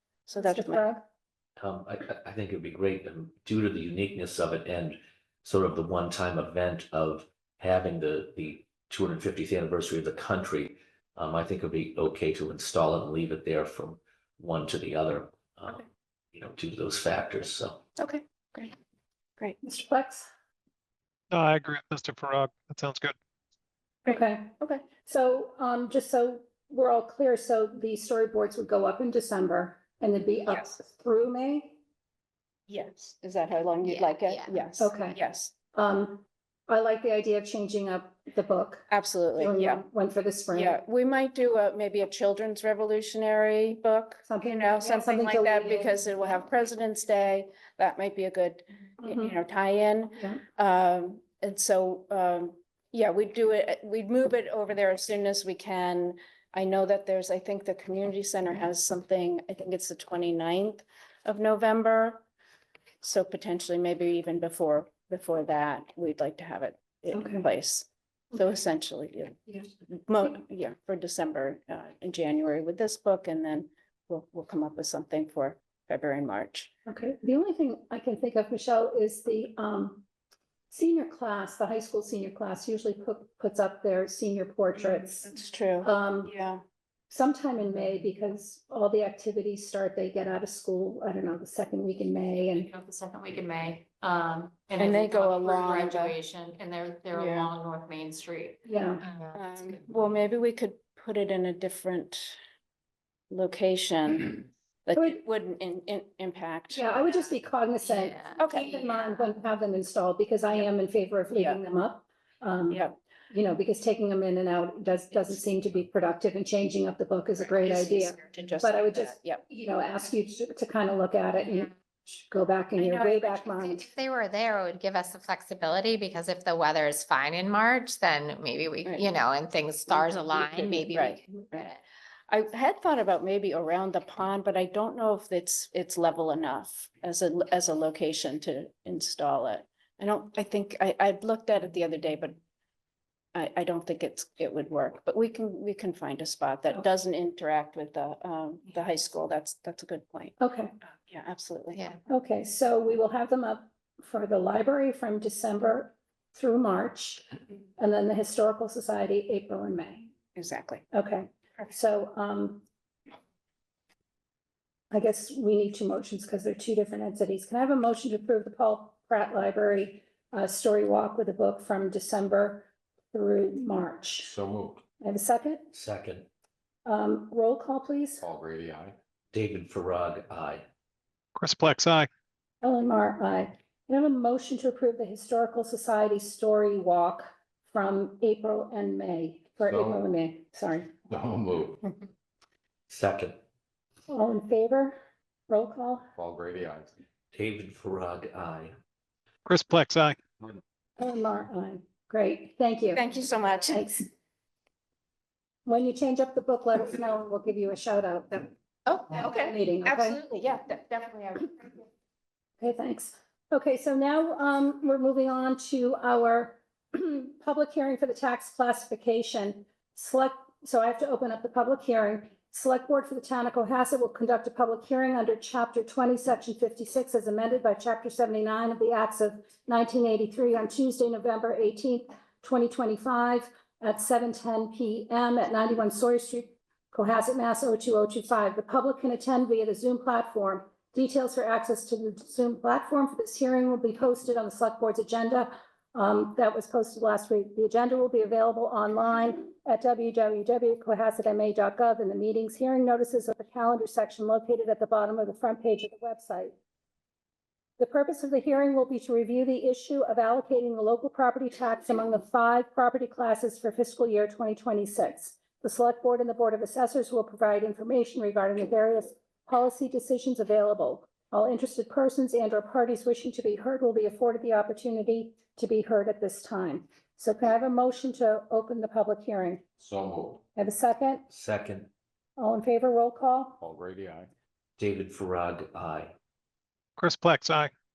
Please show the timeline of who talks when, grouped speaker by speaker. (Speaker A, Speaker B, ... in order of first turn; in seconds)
Speaker A: 0.3-0.8, 18.0-18.8, 24.1-24.9, 32.7-35.5, 38.9-39.8, 40.5-62.2, 63.0-76.7, 84.8-86.6, 94.8-96.2, 97.1-97.5, 99.3-102.4, 103.3-107.3, 108.4-108.9, 111.3-111.6, 112.7-113.0, 117.4-119.4, 122.8-123.6, 128.8-129.1, 129.9-131.8, 132.3-142.4, 143.3-150.4, 151.1-151.8, 160.3-160.8, 202.9-203.9, 208.9-211.8
Speaker B: 0.4-1.0, 19.6-20.3, 24.1-31.8, 34.8-35.2, 35.7-40.8, 44.3-45.9, 49.0-49.3, 67.1-67.5, 76.9-80.0, 80.7-85.3, 85.8-86.3, 87.1-92.7, 98.7-99.0, 106.7-123.9, 150.4-150.7, 152.1-157.3, 157.8-160.1, 160.9-162.6, 164.9-174.3, 175.0-175.7, 176.8-178.2, 182.6-190.9, 194.1-195.0, 195.5-196.1, 201.0-203.1, 203.7-204.1, 205.7-208.5, 209.1-210.2, 212.6-256.5, 257.8-279.6, 280.6-281.2, 282.4-283.6
Speaker C: 1.6-15.8, 16.3-17.8, 175.7-176.3, 179.3-180.6, 192.9-193.4, 197.3-198.7, 281.3-281.9, 284.8-286.1
Speaker D: 21.3-23.1, 181.3-182.1, 199.5-200.2, 287.0-287.7
Speaker E: 33.8-34.6, 92.7-96.9, 98.2-99.8, 107.8-108.9, 123.6-131.7
Speaker F: 92.6-98.4
Speaker G: 174.2-174.8, 178.2-179.0, 189.6-190.1, 191.1-191.8, 196.2-196.9, 279.8-280.4, 283.6-284.3